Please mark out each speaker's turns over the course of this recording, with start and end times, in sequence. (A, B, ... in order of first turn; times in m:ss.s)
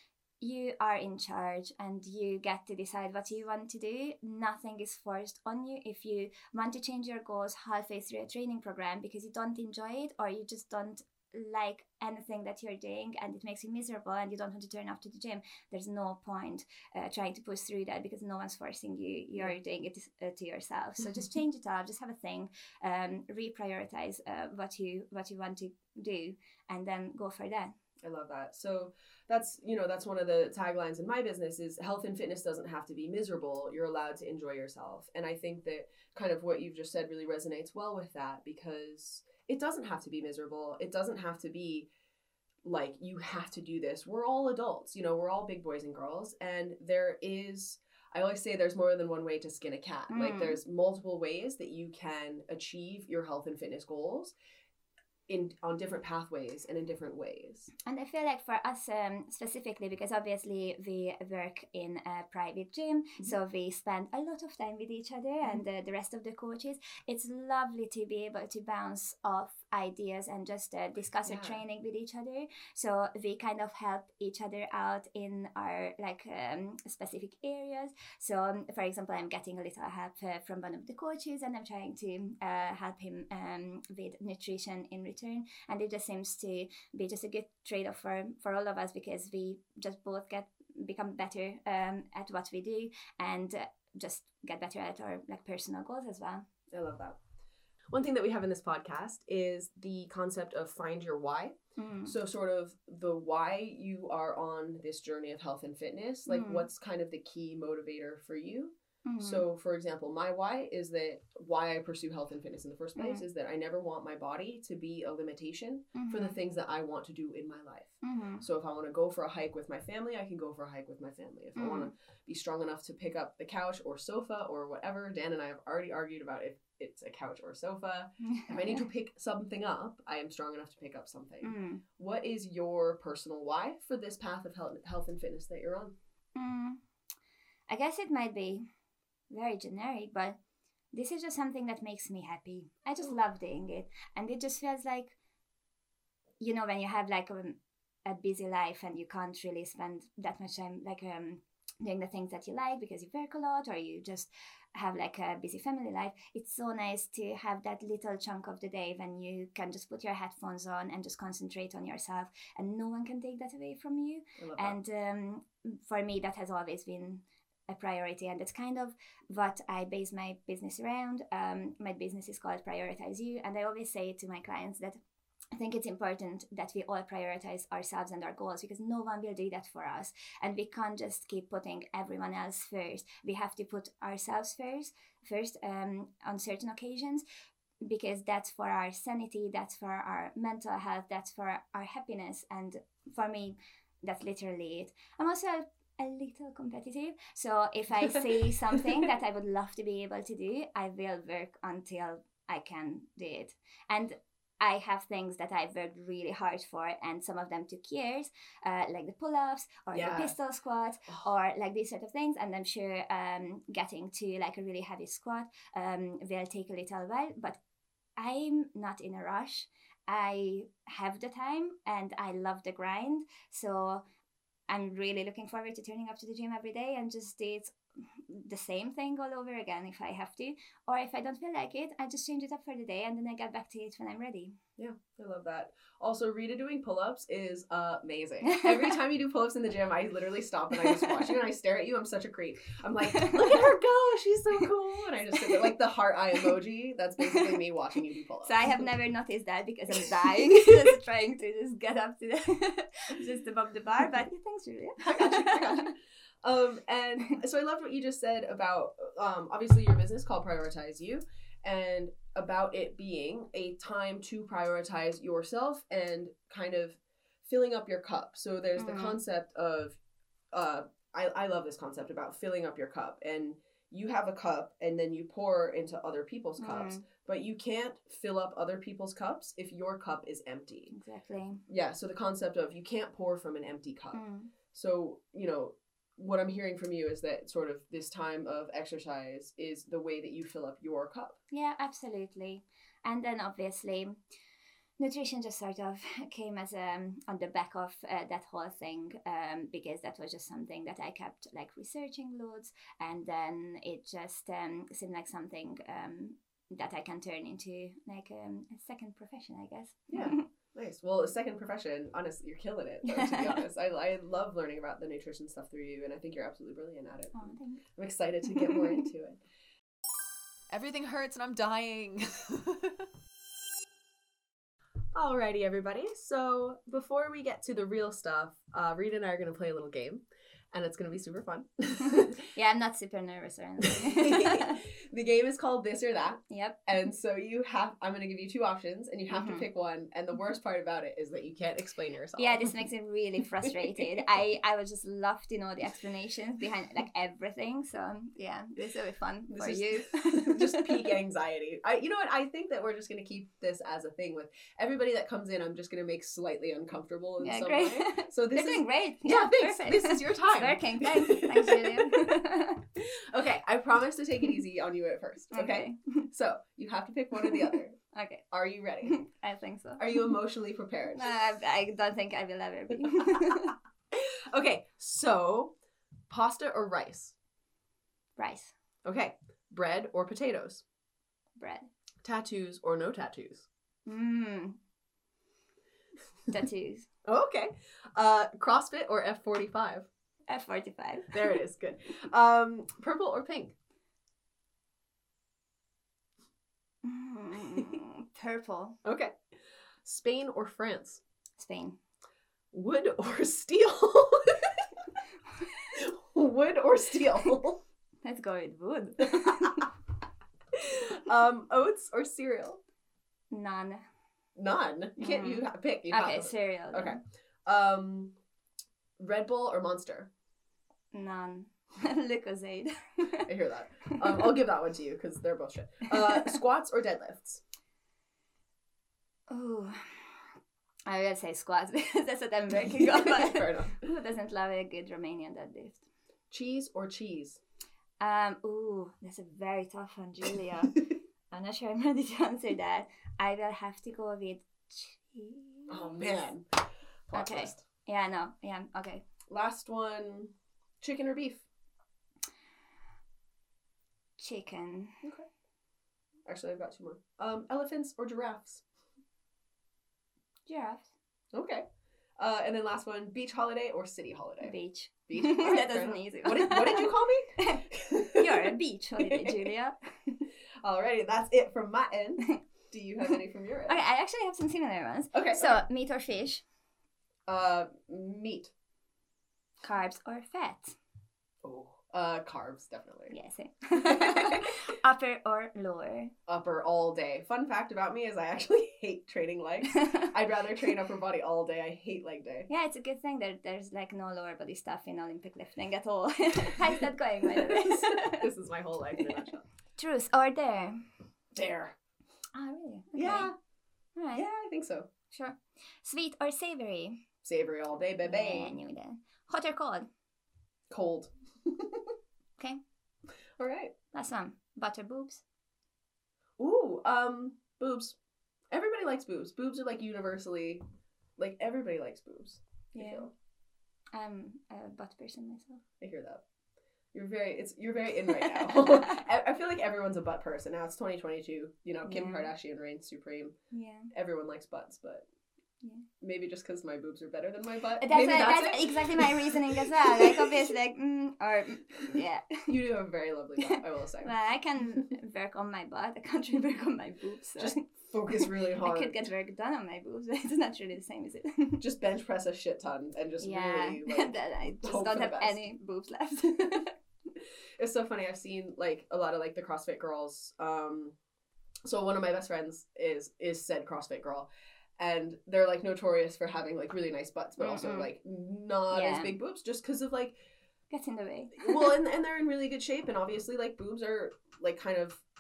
0:00.4-0:27.8 A
0:28.0-0:41.9 B
0:42.6-0:54.3 B
0:50.1-0:50.6 A
0:55.3-0:57.7 B
0:57.9-1:36.4 A
1:11.2-1:11.6 B
1:36.7-1:37.2 B
1:37.9-2:16.0 B
1:41.8-1:42.1 A
1:46.3-1:46.7 A
1:49.0-1:49.4 A
1:53.0-1:53.2 A
1:55.9-1:56.4 A
1:58.0-1:58.4 A
2:01.6-2:01.9 A
2:08.2-2:08.8 A
2:11.4-2:11.8 A
2:16.4-2:16.8 A
2:17.7-2:18.7 A
2:19.3-2:20.4 A
2:20.9-2:25.2 A
2:26.4-2:55.0 A
2:44.4-2:44.8 B
2:55.5-3:07.2 A
3:07.8-3:37.6 A
3:29.9-3:30.3 B
3:38.2-3:44.0 A
3:44.7-3:54.6 A
3:54.8-4:08.8 B
4:00.8-4:01.2 A
4:03.2-4:03.6 A
4:07.2-4:07.6 A
4:08.4-4:15.9 A
4:15.0-4:30.0 B
4:28.8-4:29.2 A
4:30.5-4:40.9 B
4:36.6-4:37.0 A
4:40.9-4:41.6 A
4:41.7-4:44.2 B
4:44.1-4:44.5 A
4:44.7-4:51.4 B
4:51.5-4:54.2 A
4:55.0-5:10.4 A
5:10.1-5:19.4 B
5:13.2-5:13.6 A
5:17.3-5:17.8 A
5:18.5-5:18.9 A
5:20.7-5:23.1 C
5:25.2-5:32.4 B
5:32.5-5:34.8 A
5:33.9-5:42.8 B
5:36.5-5:36.8 A
5:39.3-5:39.7 A
5:42.4-5:50.9 A
5:43.7-5:44.0 B
5:49.5-6:02.3 B
5:57.4-6:02.8 A
6:03.3-6:08.0 B
6:05.5-6:06.3 A
6:07.4-6:08.5 A
6:08.5-6:09.2 B
6:09.0-6:10.3 A
6:10.0-6:11.3 B
6:11.1-6:13.7 A
6:14.1-6:15.8 B
6:16.3-6:17.4 B
6:18.4-6:18.7 A
6:19.0-6:20.8 B
6:21.6-6:21.9 A
6:22.2-6:23.7 B
6:24.1-6:24.8 A
6:26.5-6:27.1 A
6:27.2-6:30.1 B
6:30.5-6:31.6 A
6:31.3-6:33.8 B
6:37.0-6:39.0 A
6:39.0-6:39.3 B
6:40.0-6:41.2 B
6:41.6-6:42.0 A
6:42.7-6:44.9 B
6:45.9-6:47.8 B
6:48.2-6:49.9 A
6:49.3-6:49.7 B
6:50.8-6:52.8 B
6:53.5-6:54.0 A
6:54.6-6:58.4 B
6:55.2-6:57.2 A
6:59.2-7:00.3 B
7:01.1-7:03.5 A
7:03.4-7:07.6 B
7:04.1-7:04.4 A
7:06.2-7:06.6 A
7:09.5-7:10.5 A
7:11.1-7:16.0 A
7:12.8-7:14.1 B
7:16.5-7:17.6 B
7:18.2-7:26.2 A
7:25.9-7:27.8 B
7:27.3-7:29.2 A
7:29.5-7:31.7 B
7:34.4-7:35.2 A
7:36.5-7:38.8 B
7:40.7-7:41.1 A
7:41.5-7:41.8 B
7:42.4-7:44.8 B
7:44.6-7:50.4 A
7:45.3-7:49.7 B
7:50.8-7:54.0 B
7:53.9-7:56.6 A
7:55.3-7:55.8 B
7:57.5-7:58.7 B
7:59.8-8:01.0 A
8:01.6-8:03.4 B
8:03.3-8:06.3 A
8:03.9-8:04.8 B
8:06.5-8:12.7 B
8:12.7-8:18.4 A
8:17.6-8:19.6 B
8:20.0-8:21.1 A
8:21.5-8:22.0 B
8:22.5-8:23.5 A
8:23.2-8:23.6 B
8:24.2-8:24.5 A
8:24.3-8:25.1 B
8:25.3-8:27.2 A
8:27.4-8:28.8 B
8:28.2-8:30.1 A
8:30.9-8:32.1 B
8:33.6-8:33.9 B
8:34.1-8:35.4 A
8:36.6-8:38.2 B
8:38.7-8:40.8 B
8:41.4-8:43.3 B
8:43.0-8:43.3 A
8:44.1-8:45.8 A
8:46.0-8:46.4 B
8:47.1-8:53.6 B
8:48.5-8:49.1 A
8:52.0-8:52.5 A
8:53.7-8:54.1 A
8:54.1-8:55.2 B
8:56.2-9:00.7 B
8:58.0-9:02.7 A
9:02.7-9:04.3 B
9:03.8-9:11.8 A
9:07.6-9:09.2 B
9:11.8-9:15.6 B
9:13.4-9:16.9 A
9:17.8-9:21.2 B
9:21.8-9:30.4 B
9:27.6-9:28.1 A
9:28.9-9:29.4 A
9:30.9-9:32.0 A
9:31.6-9:35.2 B